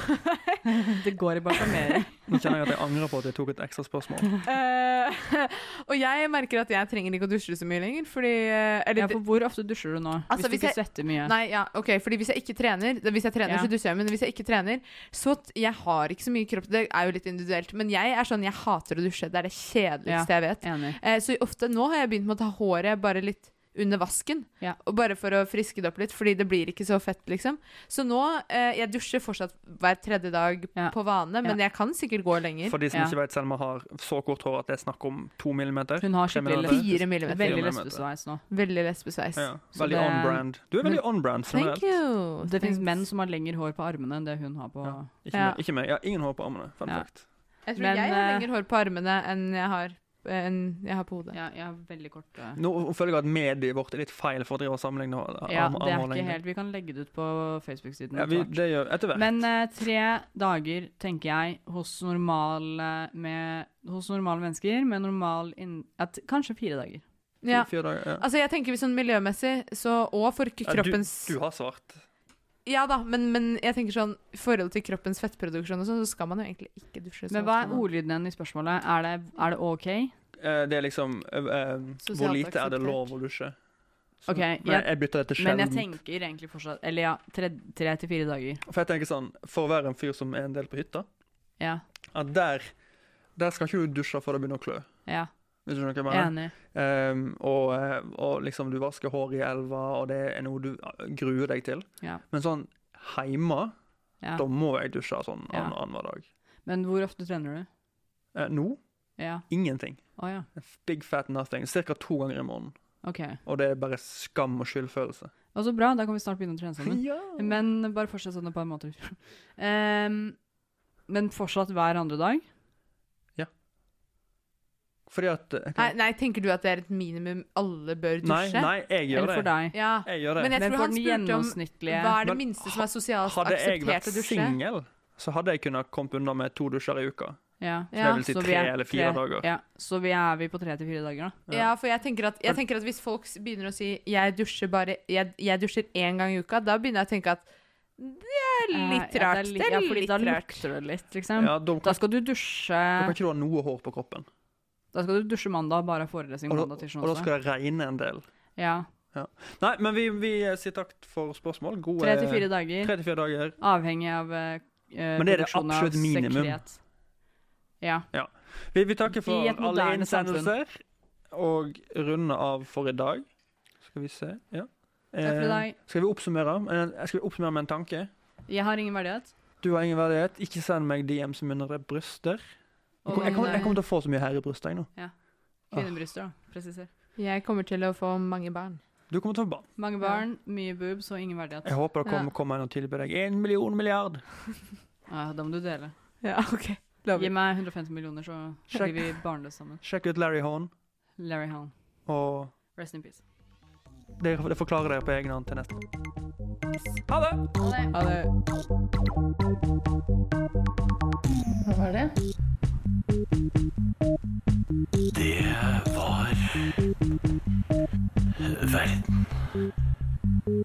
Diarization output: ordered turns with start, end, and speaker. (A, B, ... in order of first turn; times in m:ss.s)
0:00.3-0:00.6 A
0:00.8-0:02.2 B
0:02.3-0:04.3 C
0:04.4-0:09.2 A
0:09.0-0:11.3 B
0:10.3-0:32.8 A
0:20.0-0:21.0 B
0:30.7-0:31.6 B
0:32.6-0:38.0 C
0:36.0-0:38.4 B
0:36.6-0:37.8 A
0:38.5-0:39.5 A
0:39.4-0:42.0 C
0:39.7-0:41.0 B
0:41.4-0:42.9 A
0:42.4-0:45.1 B
0:44.8-0:47.2 C
0:45.3-0:45.6 A
0:46.8-0:48.5 B
0:47.6-0:51.4 A
0:51.3-0:52.6 B
0:52.5-0:56.4 C
0:55.5-1:07.0 B
0:58.1-0:59.5 C
1:07.4-1:11.4 A
1:07.5-1:08.2 C
1:10.6-1:12.0 C
1:12.6-1:17.8 A
1:17.3-1:20.1 B
1:20.4-1:23.5 C
1:22.0-1:23.1 A
1:24.2-1:25.9 C
1:24.3-1:28.6 B
1:28.6-1:31.0 C
1:32.1-1:32.7 C
1:33.4-1:35.0 C
1:35.6-1:43.7 C
1:36.1-1:36.5 B
1:44.2-1:44.4 B
1:44.3-1:46.2 C
1:45.5-1:45.7 B
1:46.6-1:47.7 B
1:48.3-1:48.8 C
1:49.2-1:49.5 B
1:49.4-1:52.9 C
1:50.2-1:50.5 B
1:53.0-1:53.4 B
1:53.4-1:55.3 C
1:55.5-2:00.4 B
1:56.8-1:57.6 C
2:01.1-2:02.4 B
2:05.1-2:06.0 C
2:05.8-2:08.7 A
2:08.2-2:10.5 C
2:09.1-2:09.8 B
2:09.7-2:14.6 A
2:10.5-2:12.2 B
2:12.2-2:19.5 C
2:17.6-2:21.4 B
2:17.9-2:18.2 A
2:21.5-2:21.7 C
2:21.5-2:30.6 A
2:28.7-2:33.1 B
2:31.4-2:32.1 C
2:33.0-2:34.3 C
2:34.9-2:37.3 B
2:36.5-2:38.2 C
2:38.6-2:38.9 B
2:39.1-2:43.6 C
2:42.0-2:46.8 B
2:45.2-2:46.6 C
2:47.8-2:48.1 B
2:48.1-2:53.2 C
2:49.1-2:50.5 B
2:53.8-2:58.1 C
2:55.2-2:55.8 B
2:58.5-2:59.3 B
2:59.6-3:02.4 C
3:03.0-3:03.8 B
3:03.0-3:04.9 C
3:03.1-3:03.8 A
3:05.7-3:06.9 B
3:05.7-3:06.0 C
3:07.2-3:08.8 A
3:09.1-3:09.7 C
3:09.8-3:12.2 B
3:11.6-3:14.2 C
3:15.1-3:15.9 B
3:16.2-3:17.3 A
3:17.1-3:19.8 B
3:18.7-3:19.2 C
3:19.8-3:20.7 C
3:21.2-3:21.7 B
3:22.0-3:22.5 C
3:22.7-3:23.2 B
3:24.2-3:25.8 C
3:27.1-3:27.5 C
3:27.8-3:28.3 A
3:35.1-3:36.6 D
3:38.5-3:39.4 D